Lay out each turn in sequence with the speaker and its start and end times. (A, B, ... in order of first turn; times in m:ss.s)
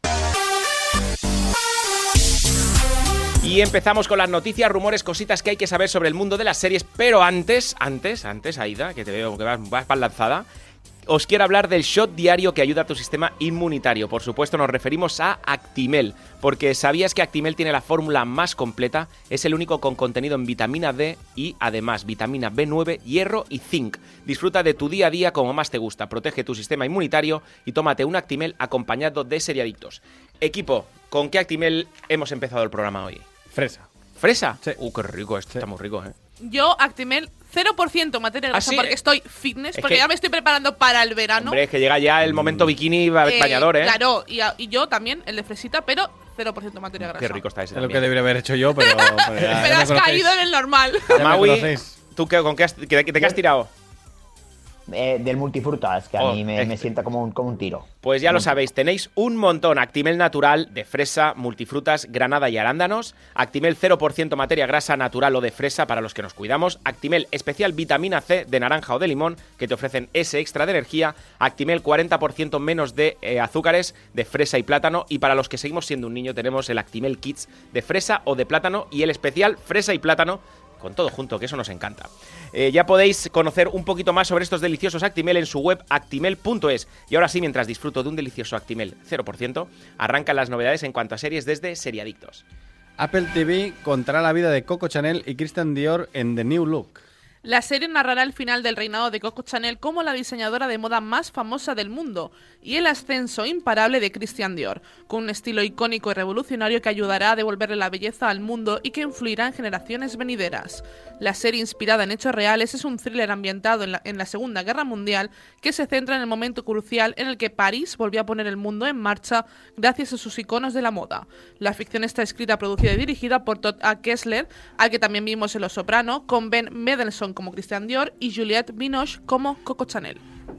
0:03.4-0:10.4 A
0:11.1-0:33.2 A
0:33.5-0:33.9 B
0:34.2-0:36.1 A
0:36.4-0:41.6 C
0:38.5-0:38.9 A
0:39.7-0:40.0 A
0:41.4-0:44.0 A
0:42.3-0:42.6 B
0:43.2-0:47.4 C
0:47.0-0:48.1 A
0:47.7-0:50.4 B
0:48.8-0:51.2 C
0:51.1-0:51.9 B
0:51.1-0:53.7 A
0:54.9-0:58.5 D
0:56.2-0:56.9 A
0:58.0-1:32.4 A
1:33.0-1:37.0 B
1:37.4-2:10.2 C